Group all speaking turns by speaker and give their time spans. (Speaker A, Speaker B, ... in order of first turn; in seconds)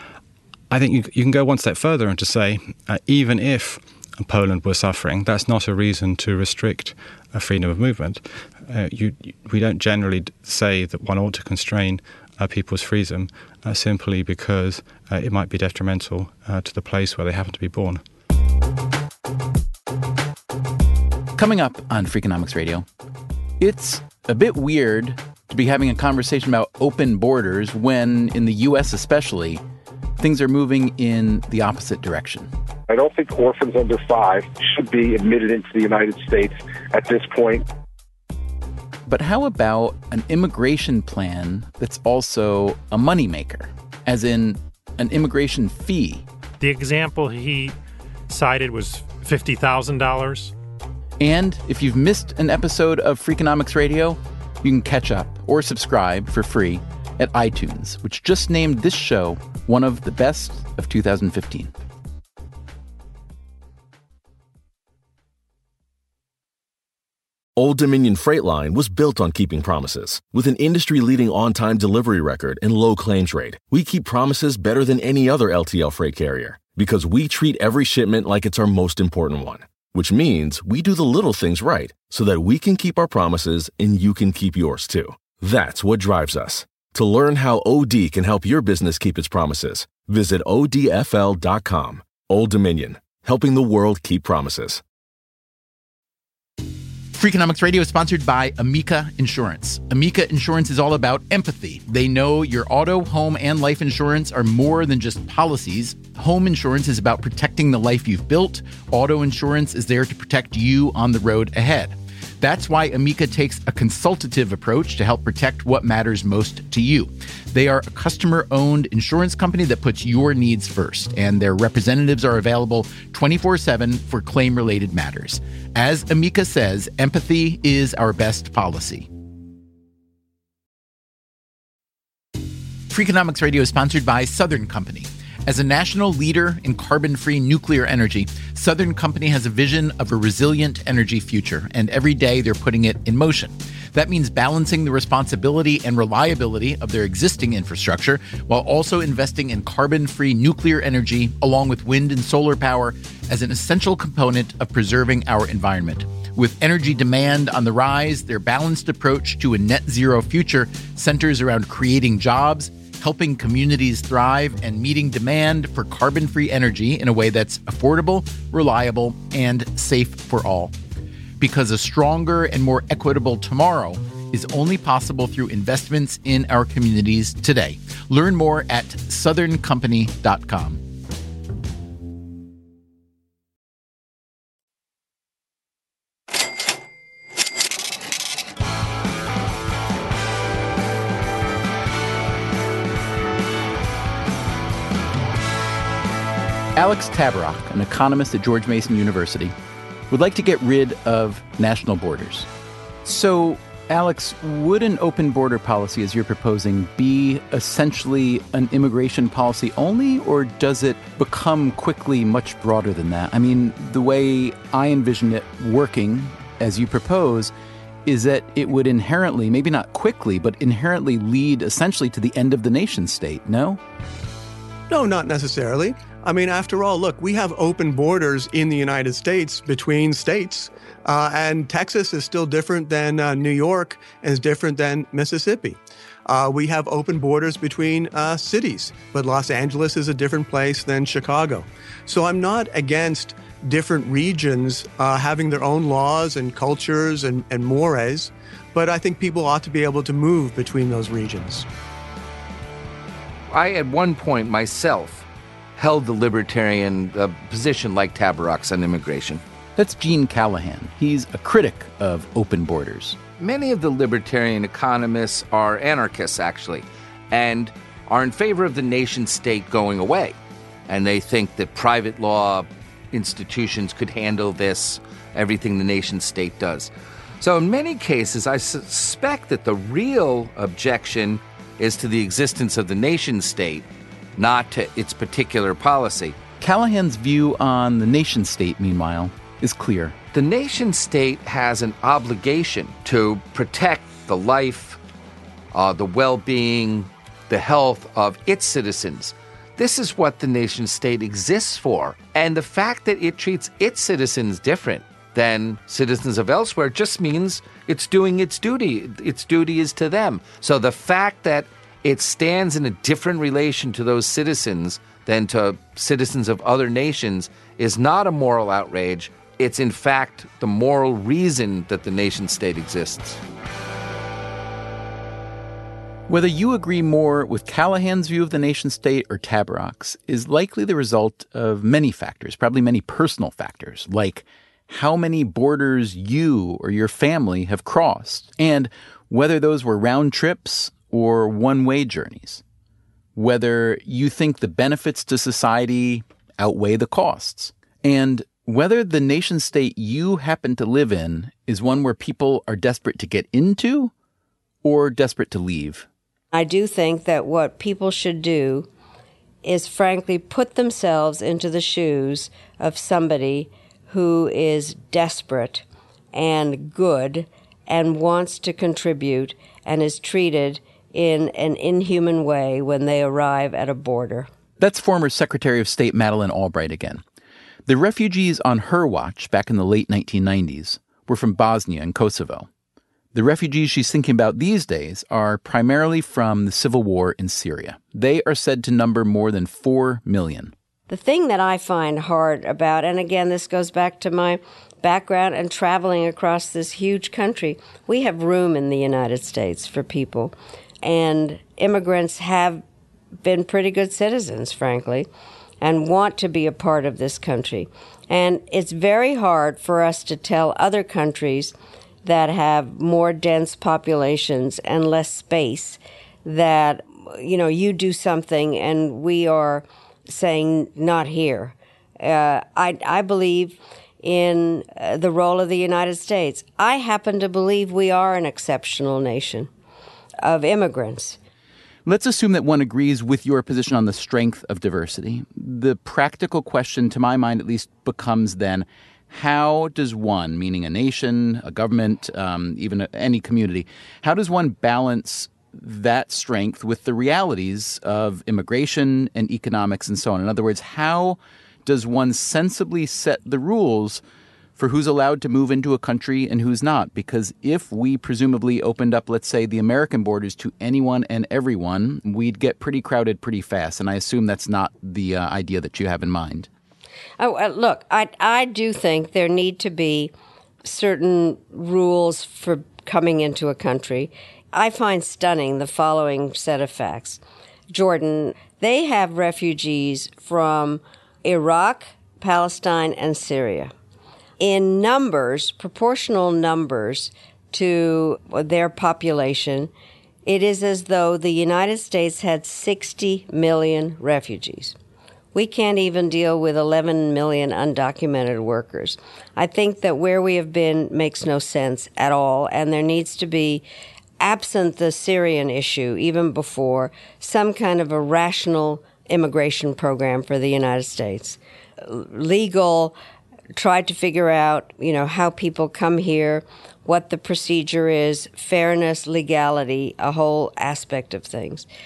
Speaker A: 0.7-18.0
Speaker B: 21.4-22.8, 23.6-29.6, 30.2-32.5, 39.0-46.2, 51.2-61.7, 97.1-129.1, 132.9-170.7, 171.4-180.8, 196.8-199.5, 200.1-202.5, 203.0-217.5, 218.1-223.8, 259.8-263.2, 286.6-290.1, 326.3-342.6, 343.4-354.1, 354.8-356.1, 374.8-377.2, 377.9-382.7, 383.3-390.7, 432.1-454.2, 454.8-466.7
Speaker C: 32.9-37.6
Speaker D: 46.6-47.7, 48.3-50.5
Speaker E: 67.5-94.8
Speaker F: 224.9-251.7
Speaker G: 253.5-259.4, 263.4-286.4, 290.3-295.0, 295.7-323.4
Speaker H: 356.5-358.9, 359.6-374.5, 391.1-402.8, 403.4-405.3, 405.8-429.7, 430.4-431.4, 467.4-470.3, 470.8-483.9, 484.6-489.9, 490.4-494.9, 495.5-503.8, 504.4-513.1, 513.7-521.9